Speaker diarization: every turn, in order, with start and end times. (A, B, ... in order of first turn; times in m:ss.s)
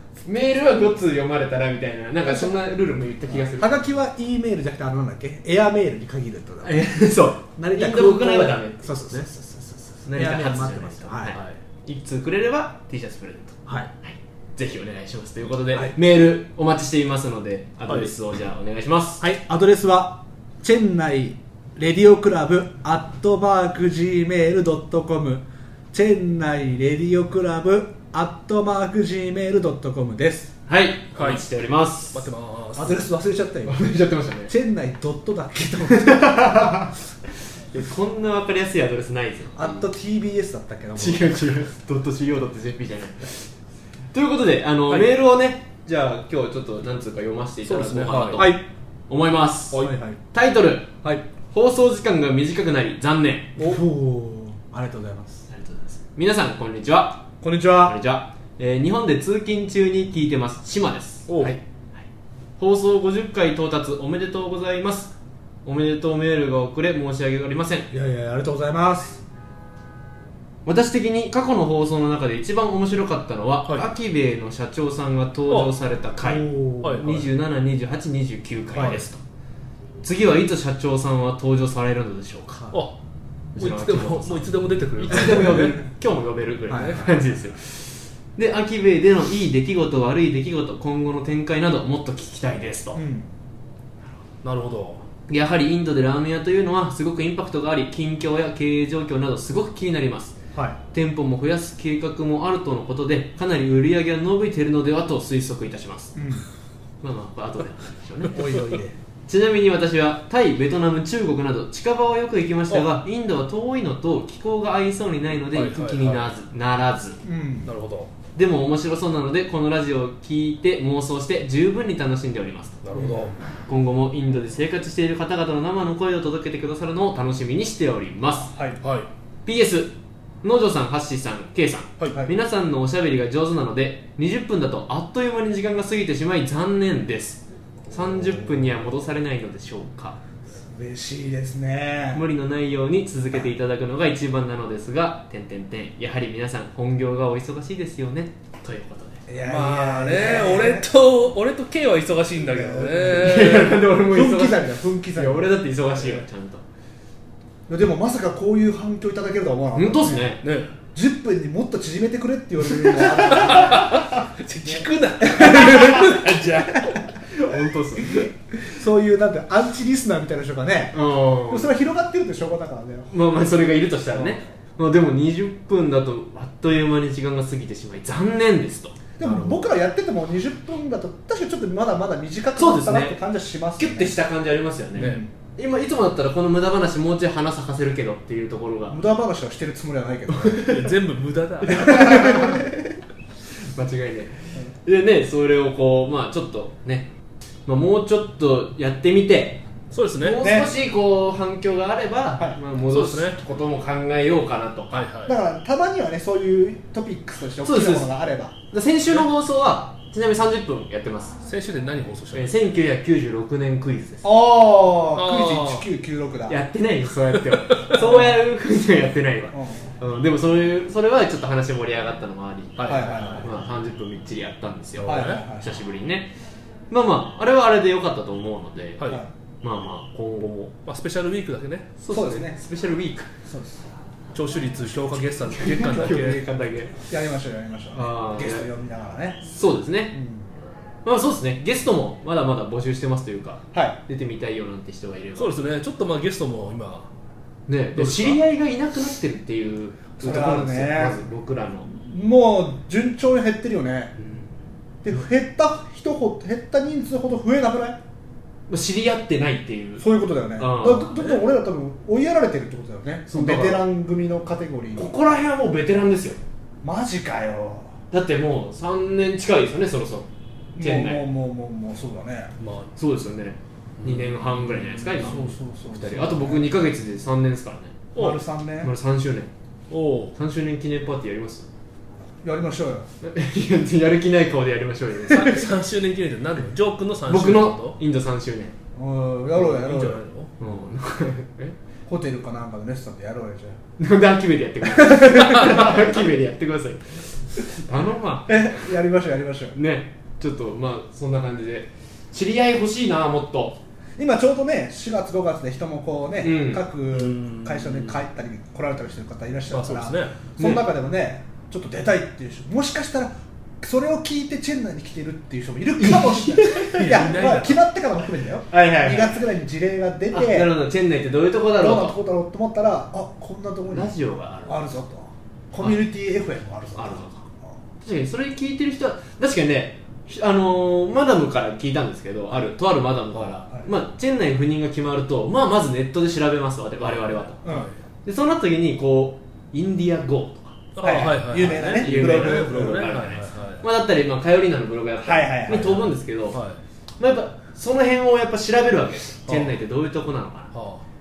0:00.2-0:03.9 A
0:02.2-0:02.6 B
0:03.3-0:06.8 B
0:06.6-0:19.2 A
0:07.6-0:09.3 B
0:10.1-0:11.4 B
0:11.3-0:11.6 C
0:17.9-0:18.1 C
0:19.2-0:30.5 B
0:30.7-0:32.3 A
0:31.1-0:31.4 C
0:32.1-0:33.0 C
0:32.7-0:36.8 B
0:33.7-0:34.5 A
0:36.0-0:36.9 A
0:37.7-0:39.9 A
0:39.6-0:41.6 B
0:41.0-0:43.5 A
0:44.1-0:49.8 A
0:47.6-0:48.5 C
0:48.4-0:48.6 B
0:49.8-0:50.2 B
0:50.3-0:50.9 A
0:51.5-0:53.5 A
0:53.6-0:55.4 B
0:55.5-0:57.2 A
0:57.4-0:58.0 B
0:57.8-1:02.0 A
1:01.3-1:01.6 C
1:02.6-1:05.1 A
1:05.6-1:07.9 A
1:07.9-1:09.2 B
1:10.6-1:19.2 A
1:15.5-1:15.8 C
1:16.2-1:17.3 B
1:16.8-1:17.1 C
1:18.7-1:19.0 B
1:20.0-1:22.7 A
1:23.5-1:33.0 A
1:23.6-1:25.8 C
1:25.1-1:25.8 B
1:26.7-1:27.4 B
1:26.7-1:27.1 C
1:32.9-1:33.3 B
1:34.4-1:35.0 C
1:35.3-1:40.4 A
1:40.9-1:46.1 A
1:46.1-1:46.4 B
1:47.0-1:48.5 A
1:48.3-1:48.9 B
1:49.3-1:57.2 A
1:55.5-1:56.3 C
1:57.2-1:57.7 B
1:57.6-1:58.1 C
1:58.3-2:02.8 A
2:02.8-2:03.4 C
2:03.7-2:08.5 A
2:08.4-2:08.8 B
2:08.8-2:09.1 C
2:09.4-2:20.2 A
2:20.5-2:22.2 B
2:22.1-2:29.2 A
2:29.3-2:30.9 B
2:29.4-2:33.7 C
2:32.4-2:36.2 B
2:33.0-2:36.6 A
2:37.7-2:40.4 B
2:39.7-2:40.4 A
2:40.4-2:40.7 C
2:40.9-2:44.0 B
2:42.8-2:46.9 C
2:44.7-2:53.1 B
2:47.3-2:48.3 A
2:50.9-2:51.7 A
2:53.1-2:59.6 A
2:54.1-2:54.4 B
2:59.2-3:04.2 B
3:02.5-3:03.2 A
3:03.8-3:09.0 A
3:05.0-3:05.2 C
3:05.0-3:05.3 B
3:08.9-3:10.8 B
3:10.3-3:11.0 A
3:10.7-3:12.0 C
3:11.6-3:12.7 A
3:11.7-3:12.7 B
3:13.7-3:17.1 A
3:17.7-3:19.6 A
3:19.9-3:20.4 C
3:20.2-3:25.1 A
3:20.4-3:20.7 B
3:22.9-3:23.4 C
3:24.9-3:25.3 C
3:25.2-3:28.5 B
3:27.6-3:28.1 A
3:28.7-3:31.4 A
3:31.4-3:32.5 C
3:32.3-3:34.3 A
3:34.2-3:36.6 B
3:35.1-3:35.8 C
3:36.5-3:46.3 A
3:37.5-3:38.0 C
3:37.9-3:38.4 B
3:39.5-3:39.9 B
3:42.8-3:43.4 C
3:42.8-3:43.6 B
3:45.0-3:45.5 C
3:45.0-3:45.8 B
3:46.9-3:50.7 A
3:50.8-3:51.9 C
3:52.0-3:53.3 A
3:52.1-3:52.6 B
3:53.5-3:53.9 B
3:54.3-3:56.4 C
3:55.5-3:57.0 A
3:55.6-3:59.5 B
3:57.9-3:58.7 A
3:59.4-4:00.2 A
4:00.1-4:00.5 B
4:01.0-4:05.6 A
4:05.4-4:07.1 C
4:07.7-4:11.9 A
4:07.9-4:08.4 C
4:10.2-4:11.2 B
4:11.9-4:14.2 B
4:15.0-4:18.0 B
4:18.7-4:21.5 A
4:20.0-4:25.1 B
4:23.3-4:23.8 A
4:24.9-4:26.4 A
4:26.8-4:27.9 B
4:28.1-4:31.2 A
4:30.7-4:32.5 B
4:32.6-4:32.9 C
4:33.0-4:38.0 A
4:34.0-4:35.5 C
4:35.2-4:36.8 B
4:38.1-4:38.4 C
4:38.2-4:38.9 B
4:38.8-4:39.5 A
4:39.9-4:40.3 C
4:40.3-4:41.7 A
4:42.4-4:43.1 B
4:43.2-4:45.5 A
4:45.3-4:48.0 C
4:47.2-4:48.7 A
4:48.9-4:50.2 B
4:49.5-4:50.5 C
4:50.6-4:51.8 A
4:52.0-4:53.8 B
4:54.0-4:58.6 A
4:58.5-4:59.8 B
4:59.7-5:03.8 A
5:04.2-5:20.7 B
5:06.4-5:06.8 A
5:07.1-5:08.2 C
5:09.7-5:10.4 C
5:10.6-5:10.9 A
5:16.0-5:17.5 A
5:17.0-5:17.8 C
5:18.7-5:19.4 A
5:20.3-5:22.2 A
5:21.8-5:24.1 B
5:23.9-5:24.9 A
5:24.7-5:27.8 B
5:25.8-5:26.0 A
5:27.0-5:27.4 A
5:28.0-5:37.6 A
5:33.3-5:33.9 B
5:37.6-5:37.9 B
5:37.6-5:37.9 C
5:38.2-5:40.8 A
5:40.9-5:43.8 C
5:41.0-5:43.0 B
5:41.6-5:46.6 A
5:45.2-5:46.2 B
5:46.5-5:46.8 C
5:47.2-5:50.7 A
5:49.5-5:49.8 C
5:50.7-5:51.0 C